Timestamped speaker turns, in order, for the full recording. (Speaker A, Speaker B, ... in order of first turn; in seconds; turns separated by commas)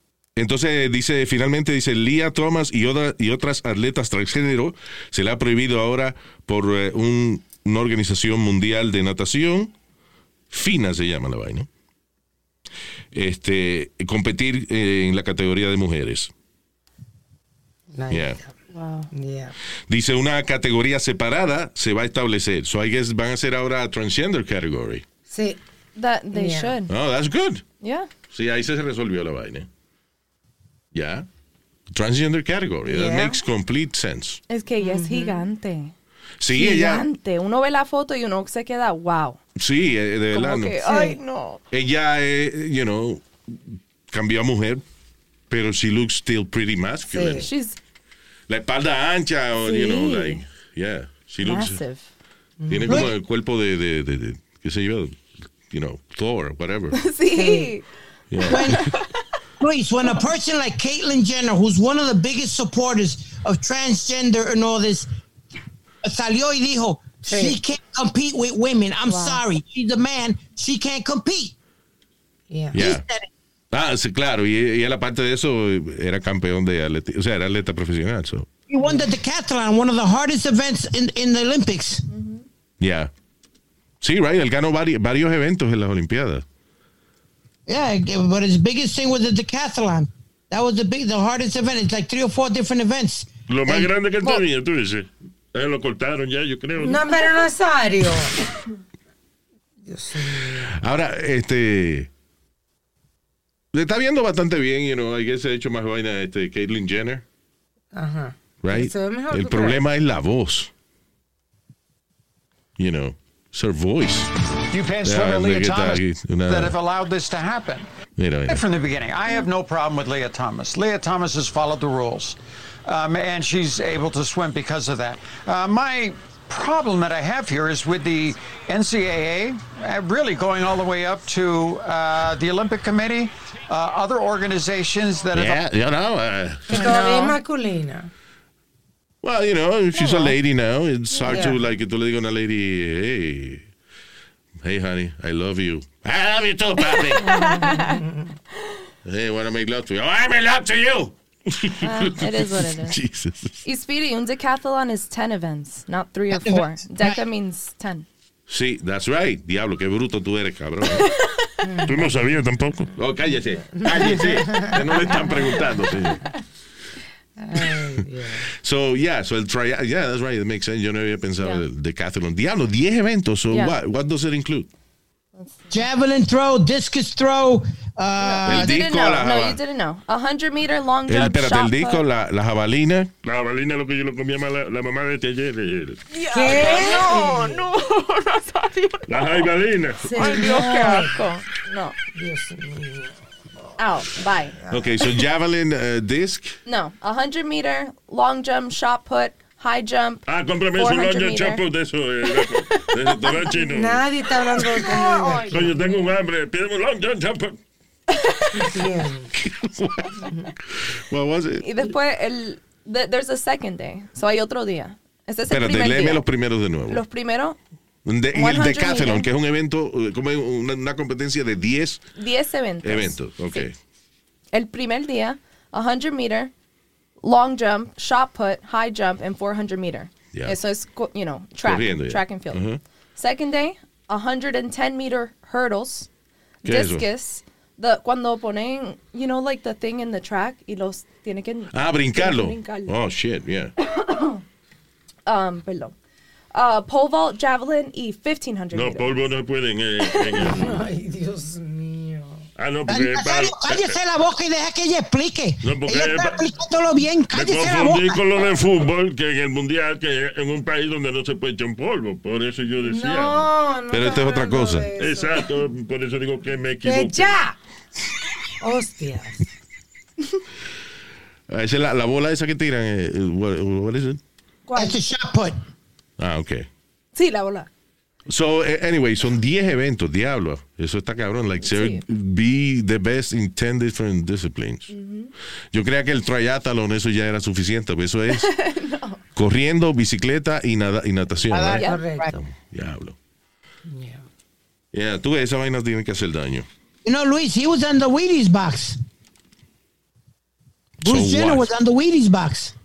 Speaker A: 0.3-9.7, Speaker A: 10.5-11.7, Speaker A: 13.1-16.3, Speaker B: 17.9-18.5, Speaker A: 18.1-18.4, Speaker C: 18.7-19.1, Speaker B: 19.1-19.5, Speaker A: 19.9-25.0, Speaker B: 25.3-25.6, Speaker C: 25.9-26.9, Speaker B: 26.3-26.8, Speaker A: 26.9-27.6, Speaker C: 27.8-28.1, Speaker A: 28.3-29.7, Speaker A: 30.9-31.2, Speaker A: 31.9-34.4, Speaker B: 32.9-33.4, Speaker C: 34.5-35.9, Speaker B: 34.8-35.5, Speaker A: 36.4-37.0, Speaker C: 36.5-39.4, Speaker A: 39.5-40.8, Speaker C: 40.3-41.6, Speaker B: 40.8-41.2, Speaker A: 41.7-43.6, Speaker A: 44.1-44.8, Speaker A: 45.5-47.5, Speaker B: 47.1-47.5, Speaker C: 47.4-47.8, Speaker A: 48.5-51.8, Speaker C: 49.6-50.4, Speaker C: 51.4-52.1, Speaker B: 52.6-53.1, Speaker A: 52.7-55.2, Speaker D: 52.9-53.1, Speaker A: 55.7-57.0, Speaker C: 56.9-57.9, Speaker B: 57.3-57.7, Speaker A: 58.3-58.9, Speaker D: 58.5-58.9, Speaker C: 58.5-59.1, Speaker D: 59.6-65.1, Speaker D: 66.0-71.5, Speaker B: 67.3-67.6, Speaker C: 69.0-69.4, Speaker B: 72.5-72.8, Speaker A: 72.7-73.0, Speaker D: 72.7-73.3, Speaker A: 73.7-78.5, Speaker D: 78.7-82.0, Speaker C: 82.1-82.4, Speaker A: 82.8-83.1, Speaker A: 84.0-86.4, Speaker D: 87.7-93.9, Speaker E: 93.5-97.2, Speaker B: 96.8-98.4, Speaker B: 99.8-100.7, Speaker A: 100.7-102.1, Speaker A: 103.7-107.2, Speaker B: 107.9-109.8, Speaker A: 108.6-110.7, Speaker A: 112.8-114.3, Speaker F: 114.7-117.8, Speaker A: 115.0-116.8, Speaker A: 118.2-118.6, Speaker F: 118.5-135.6, Speaker A: 135.3-137.2, Speaker B: 136.7-138.1, Speaker C: 136.7-137.2, Speaker A: 139.2-143.6, Speaker C: 139.9-140.3, Speaker C: 141.1-141.4, Speaker B: 141.3-141.6, Speaker A: 144.6-147.2, Speaker C: 146.8-148.0, Speaker B: 147.2-148.3, Speaker A: 149.0-153.6, Speaker C: 151.8-153.0, Speaker C: 153.6-158.1, Speaker D: 156.3-157.2, Speaker A: 158.5-161.1, Speaker C: 161.0-161.5, Speaker B: 161.6-162.1, Speaker E: 161.8-162.9, Speaker A: 162.9-166.2, Speaker B: 163.7-165.6, Speaker B: 167.4-168.5, Speaker A: 168.6-174.7, Speaker C: 173.5-173.8, Speaker C: 175.3-175.7, Speaker D: 175.7-178.7, Speaker C: 178.2-182.0, Speaker A: 178.4-179.6, Speaker A: 181.1-183.1, Speaker E: 183.2-186.0, Speaker C: 186.1-189.5, Speaker B: 186.3-187.7, Speaker E: 189.1-190.1, Speaker B: 190.0-191.3, Speaker C: 190.1-191.9, Speaker B: 192.1-193.1, Speaker C: 193.8-194.6, Speaker B: 194.6-194.9, Speaker A: 194.7-196.6, Speaker C: 196.7-201.6, Speaker E: 200.3-204.1, Speaker C: 202.3-203.6, Speaker B: 203.6-206.0, Speaker C: 204.7-205.9, Speaker E: 205.5-207.6, Speaker C: 208.2-208.5, Speaker B: 208.5-209.3, Speaker A: 209.3-211.6, Speaker C: 211.6-216.2, Speaker A: 215.5-217.0, Speaker C: 216.9-217.6, Speaker A: 218.0-222.0, Speaker C: 218.3-219.3, Speaker C: 222.2-223.7, Speaker A: 222.8-223.7, Speaker C: 224.5-226.5, Speaker C: 227.2-232.6, Speaker A: 231.6-232.8, Speaker C: 233.2-236.1, Speaker C: 236.6-242.9, Speaker A: 236.6-237.0, Speaker A: 241.7-243.7, Speaker C: 243.8-244.4, Speaker C: 245.2-245.9, Speaker C: 246.5-249.1, Speaker E: 248.7-250.8, Speaker B: 250.4-252.4, Speaker E: 252.6-254.0, Speaker D: 252.9-258.2, Speaker E: 255.6-256.4, Speaker E: 257.3-263.5, Speaker B: 262.8-265.5, Speaker A: 263.9-264.9, Speaker E: 265.0-267.4, Speaker B: 266.8-267.6, Speaker B: 268.6-269.4, Speaker A: 271.5-274.2, Speaker C: 274.7-274.9, Speaker D: 274.8-275.6, Speaker A: 276.2-276.6, Speaker C: 277.1-277.7, Speaker A: 278.3-284.9, Speaker C: 281.6-282.0, Speaker C: 284.9-285.3, Speaker A: 285.7-288.5, Speaker C: 288.3-289.2, Speaker A: 289.3-291.8, Speaker D: 291.5-292.4, Speaker C: 291.7-292.0, Speaker B: 291.8-292.4, Speaker A: 292.5-293.1, Speaker B: 293.9-294.2, Speaker A: 294.9-296.6, Speaker D: 297.0-299.0, Speaker D: 301.0-302.7, Speaker A: 301.0-301.7